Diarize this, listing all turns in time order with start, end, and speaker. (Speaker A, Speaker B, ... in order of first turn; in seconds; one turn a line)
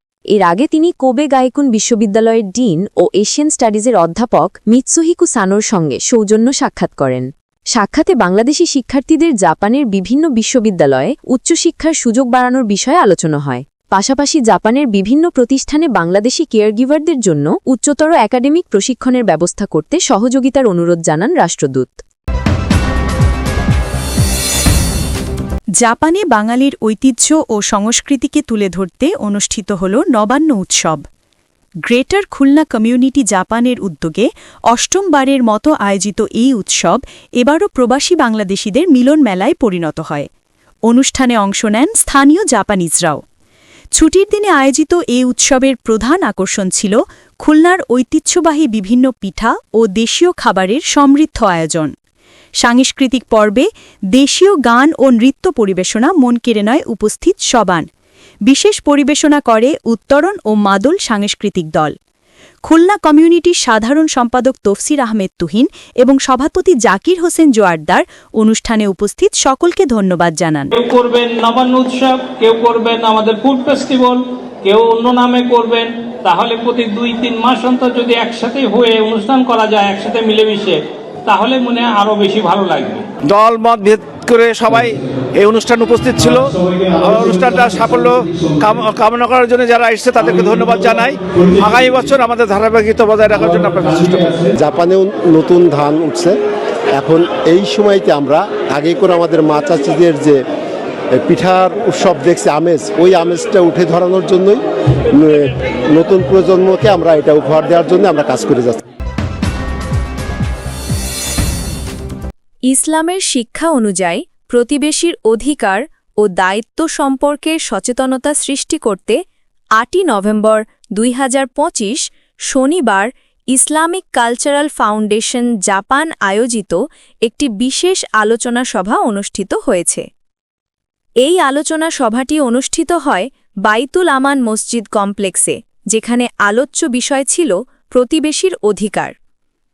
Speaker A: 0.3-22.0
Speaker B: 25.8-31.0
Speaker B: 31.8-40.3
Speaker B: 40.9-43.2
Speaker B: 43.9-51.9
Speaker B: 52.6-57.9
Speaker B: 58.5-61.9
Speaker B: 62.6-70.7
Speaker C: 70.7-83.1
Speaker D: 83.2-94.5
Speaker E: 94.5-96.4
Speaker E: 96.9-100.4
Speaker E: 101.1-104.6
Speaker E: 105.1-108.8
Speaker B: 112.7-119.2
Speaker B: 119.8-130.1
Speaker B: 131.2-139.1